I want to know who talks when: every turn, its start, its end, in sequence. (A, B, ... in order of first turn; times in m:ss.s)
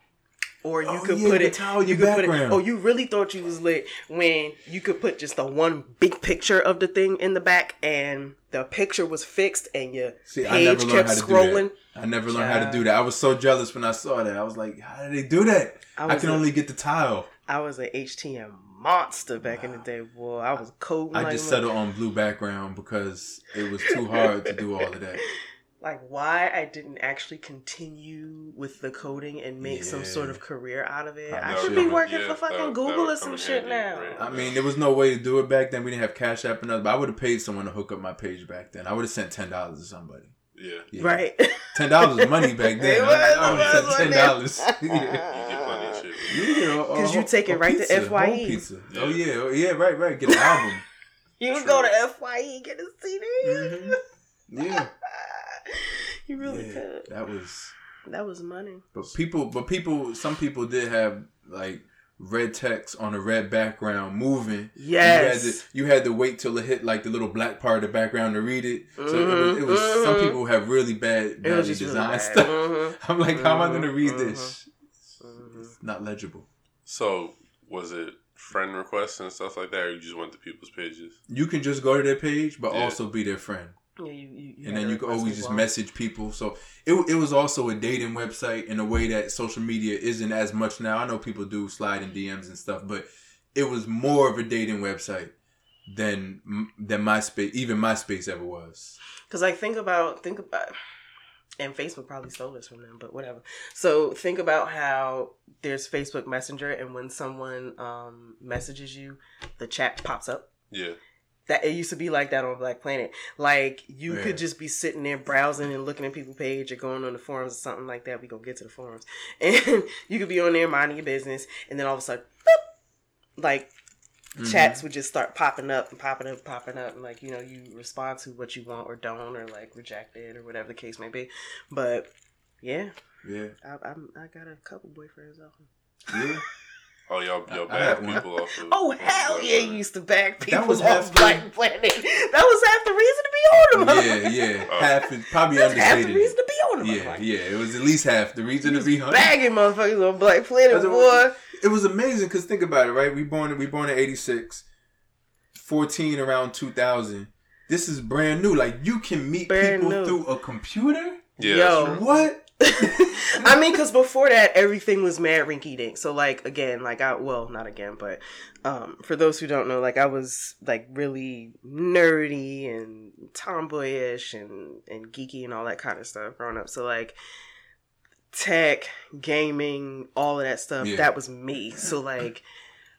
0:00.6-0:12.9 A
0:00.8-0:02.6 B
0:10.3-0:17.3 B
0:16.0-0:16.5 A
0:17.5-0:21.7 A
0:19.4-0:19.8 B
0:21.1-0:25.2 B
0:23.8-0:24.5 A
0:25.2-0:34.4 A
0:29.6-0:30.4 B
0:31.3-0:32.0 B
0:31.5-0:34.6 C
0:34.2-0:40.4 B
0:40.6-0:40.9 C
0:40.9-0:45.2 B
0:41.0-0:46.3 A
0:43.4-0:44.1 C
0:45.2-0:46.4 C
0:46.3-0:50.8 B
0:46.9-0:48.7 A
0:48.9-0:49.2 C
0:50.3-0:50.7 A
0:51.4-0:54.0 A
0:53.4-0:54.0 B
0:54.5-0:54.9 B
0:54.6-0:57.1 A
0:56.4-0:57.7 B
0:58.0-0:58.9 A
0:58.9-1:14.7 B
1:04.8-1:05.6 A
1:09.0-1:10.4 A
1:11.4-1:14.6 A
1:15.2-1:15.8 A
1:15.8-1:16.5 B
1:16.9-1:21.2 C
1:21.3-1:23.8 B
1:22.7-1:23.0 C
1:24.0-1:25.7 A
1:24.6-1:35.3 B
1:35.9-1:39.0 B
1:39.3-1:40.7 A
1:41.6-1:50.5 A
1:50.7-1:51.0 C
1:51.5-2:02.6 A
1:54.1-1:54.4 B
2:03.4-2:03.7 A
2:04.4-2:04.8 B
2:04.4-2:12.1 A
2:12.6-2:12.9 A
2:13.2-2:13.6 B
2:13.6-2:16.4 A
2:16.1-2:16.4 B
2:17.1-2:19.8 C
2:17.5-2:18.2 B
2:17.8-2:24.7 A
2:20.4-2:21.5 B
2:23.8-2:29.4 B
2:24.7-2:25.0 C
2:25.5-2:27.3 A
2:28.6-2:31.4 A
2:30.7-2:34.6 B
2:35.5-2:43.5 B
2:39.5-2:40.2 A
2:41.4-2:42.0 C
2:41.4-2:57.2 A
2:58.3-3:02.4 A
3:00.8-3:01.1 B